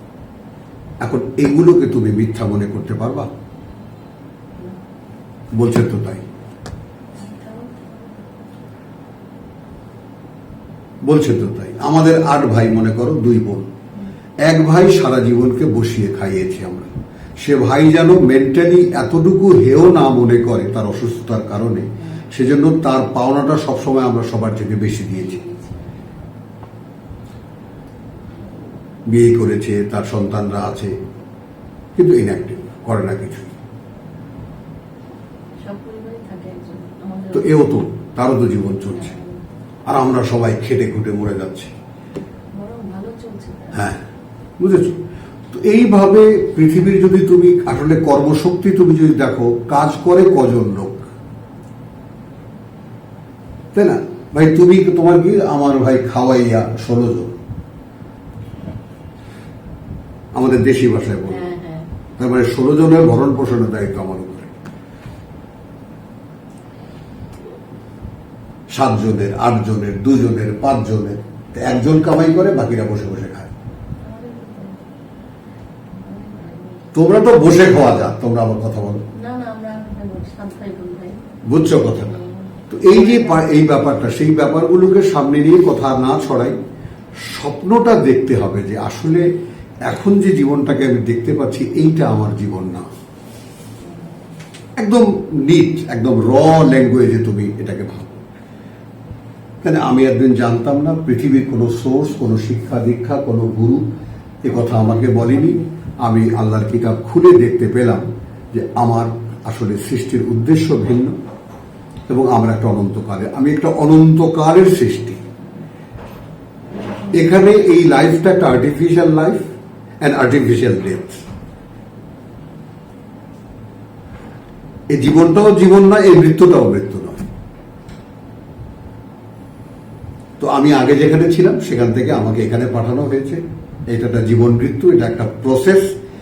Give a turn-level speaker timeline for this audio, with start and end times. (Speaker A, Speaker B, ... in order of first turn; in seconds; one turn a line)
Speaker A: 1.0-3.3
Speaker A: 5.5-6.2
Speaker B: 7.2-8.3
Speaker A: 11.1-13.7
Speaker A: 14.4-25.4
Speaker B: 25.1-26.0
Speaker A: 29.1-30.9
Speaker A: 31.9-33.5
Speaker B: 35.6-37.6
Speaker A: 37.3-39.1
Speaker B: 39.0-39.3
Speaker A: 39.9-41.7
Speaker B: 42.5-43.9
Speaker A: 43.7-44.0
Speaker A: 44.6-45.0
Speaker A: 45.5-51.0
Speaker A: 53.7-57.3
Speaker A: 60.3-61.5
Speaker B: 61.3-61.9
Speaker A: 62.2-64.5
Speaker A: 68.7-73.5
Speaker B: 74.0-74.8
Speaker B: 75.9-76.9
Speaker A: 76.9-79.0
Speaker B: 79.1-81.2
Speaker A: 81.5-82.2
Speaker B: 82.0-83.5
Speaker A: 82.7-86.5
Speaker A: 87.2-89.3
Speaker A: 89.9-92.8
Speaker A: 94.8-98.2
Speaker A: 99.6-103.8
Speaker A: 104.4-111.2
Speaker A: 112.1-115.2
Speaker A: 117.1-121.2
Speaker A: 124.9-127.2
Speaker A: 130.4-135.9